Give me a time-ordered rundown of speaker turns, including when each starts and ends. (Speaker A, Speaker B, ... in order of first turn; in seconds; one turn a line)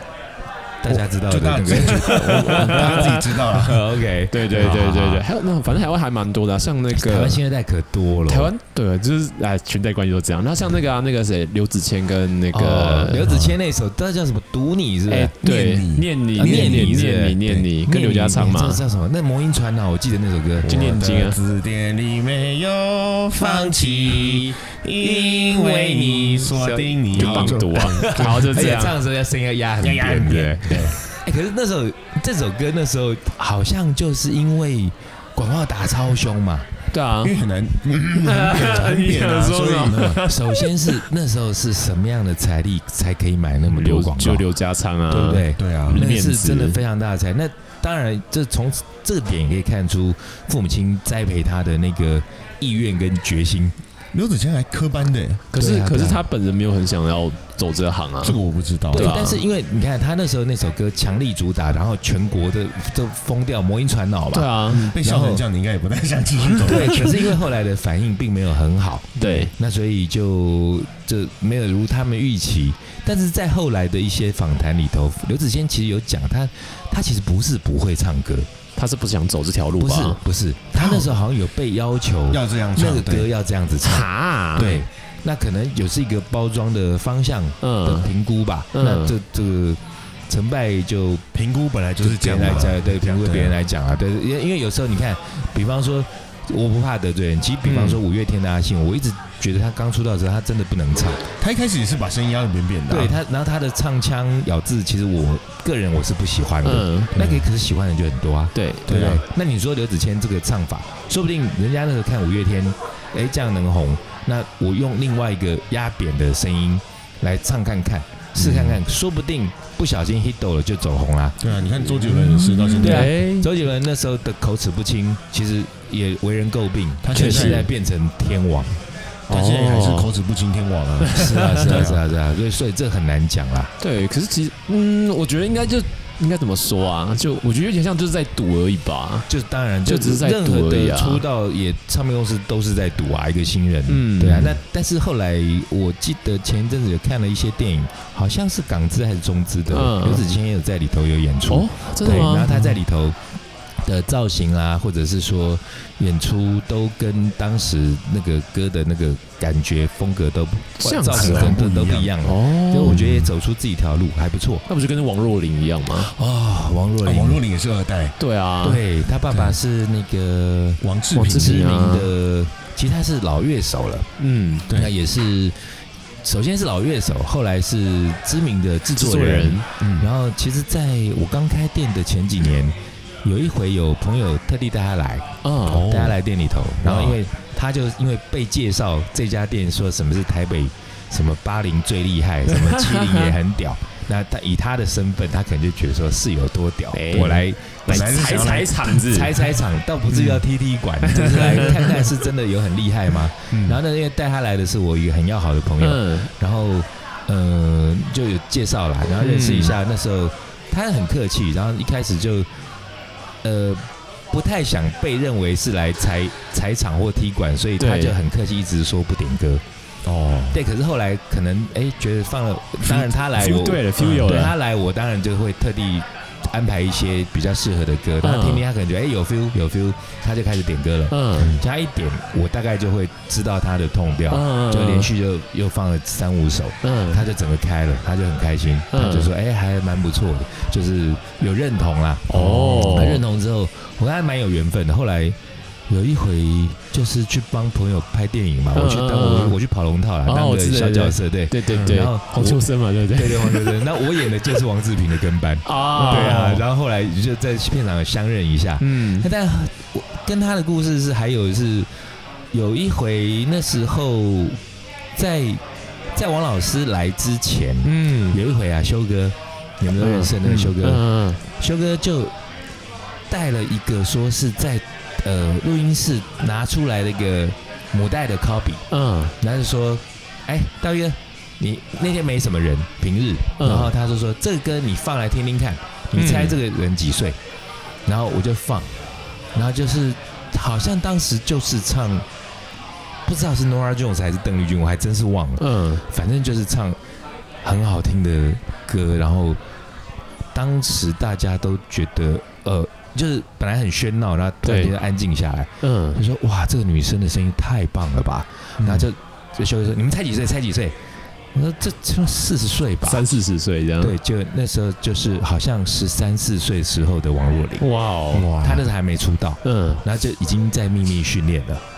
Speaker A: 0.8-5.3
Speaker B: 0.9-4.0
Speaker C: 1.8-3.2
Speaker C: 4.3-7.4
Speaker A: 6.9-8.5
Speaker C: 8.3-13.4
Speaker A: 12.5-15.4
Speaker C: 15.1-18.8
Speaker B: 15.4-17.7
Speaker A: 16.4-20.7
Speaker B: 20.6-28.7
Speaker C: 20.7-21.4
Speaker A: 23.4-26.6
Speaker C: 26.6-29.0
Speaker A: 27.1-36.7
Speaker B: 29.8-31.0
Speaker C: 36.9-37.4
Speaker B: 37.2-40.2
Speaker C: 38.2-41.0
Speaker A: 39.9-44.5
Speaker C: 43.7-46.8
Speaker A: 45.1-53.8
Speaker B: 45.6-46.0
Speaker B: 54.1-55.4
Speaker C: 55.5-58.4
Speaker A: 55.6-56.2
Speaker B: 58.2-59.2
Speaker A: 58.9-65.4
Speaker C: 58.9-59.4
Speaker C: 64.3-64.9
Speaker B: 64.7-67.4
Speaker A: 66.6-78.5
Speaker C: 69.2-69.5
Speaker C: 78.8-80.2
Speaker A: 79.8-91.2
Speaker B: 80.8-81.1
Speaker B: 82.3-83.3
Speaker C: 83.8-84.8
Speaker B: 84.6-84.8
Speaker C: 87.6-88.1
Speaker C: 88.7-89.1
Speaker B: 91.3-93.6
Speaker A: 92.0-101.2
Speaker C: 97.7-98.0
Speaker B: 101.4-103.2
Speaker A: 102.9-121.4
Speaker C: 106.6-107.2
Speaker B: 107.2-107.5
Speaker C: 108.5-108.9
Speaker B: 108.9-109.2
Speaker B: 118.4-118.8
Speaker B: 121.4-123.2
Speaker C: 122.1-123.5
Speaker A: 122.8-128.8
Speaker B: 127.0-127.7
Speaker C: 127.1-127.6
Speaker C: 129.3-130.1
Speaker B: 129.3-132.0
Speaker C: 131.0-131.9
Speaker A: 131.1-133.7
Speaker C: 133.8-139.3
Speaker A: 139.3-153.2
Speaker C: 139.9-141.2
Speaker C: 143.9-144.6
Speaker C: 149.7-150.3
Speaker C: 151.5-152.7
Speaker A: 153.8-164.7
Speaker C: 160.8-161.6
Speaker B: 161.1-162.2
Speaker C: 162.2-163.1
Speaker B: 162.8-163.3
Speaker C: 164.7-166.1
Speaker A: 165.9-167.4
Speaker B: 167.0-168.2
Speaker C: 168.2-168.8
Speaker A: 168.6-174.1
Speaker B: 169.3-169.6
Speaker B: 170.8-171.7
Speaker C: 171.2-172.1
Speaker C: 174.2-174.7
Speaker B: 174.7-174.9
Speaker A: 174.7-175.6
Speaker A: 176.2-212.5
Speaker C: 178.9-179.7
Speaker B: 179.8-180.1
Speaker C: 185.4-185.9
Speaker B: 185.7-186.2
Speaker B: 186.9-187.2
Speaker C: 192.5-193.3
Speaker C: 196.9-199.4
Speaker B: 197.9-199.0
Speaker B: 200.1-200.4
Speaker C: 201.0-202.1
Speaker B: 203.5-203.8
Speaker C: 205.8-206.3
Speaker C: 209.2-209.8
Speaker A: 213.4-219.6
Speaker C: 217.8-218.2
Speaker B: 220.1-220.6
Speaker A: 220.5-245.4
Speaker C: 222.9-224.5
Speaker C: 228.2-228.6
Speaker C: 231.1-231.6
Speaker C: 234.3-235.1
Speaker C: 236.8-237.2
Speaker C: 238.9-239.3
Speaker C: 242.3-243.2
Speaker A: 245.9-261.9
Speaker C: 248.8-249.6
Speaker C: 250.3-253.8
Speaker B: 251.7-252.0
Speaker C: 255.7-256.6
Speaker B: 256.0-256.6
Speaker C: 258.8-259.3
Speaker A: 262.5-264.6
Speaker A: 265.1-265.6
Speaker A: 266.1-272.3
Speaker C: 267.8-268.4
Speaker C: 270.0-271.4
Speaker B: 270.4-270.7
Speaker A: 273.3-278.8
Speaker C: 278.9-279.4
Speaker A: 279.4-287.4
Speaker C: 283.6-283.9
Speaker C: 286.1-286.6
Speaker A: 288.1-288.9
Speaker A: 289.6-292.2
Speaker A: 293.3-297.0
Speaker C: 295.6-296.0
Speaker A: 297.6-299.6
Speaker A: 300.5-311.0
Speaker C: 304.6-304.9
Speaker C: 305.8-306.2
Speaker B: 308.8-309.1
Speaker A: 311.5-313.3
Speaker C: 313.0-314.1
Speaker A: 314.0-317.9
Speaker C: 317.8-318.5
Speaker B: 318.3-318.9
Speaker A: 318.6-321.8
Speaker C: 319.6-320.0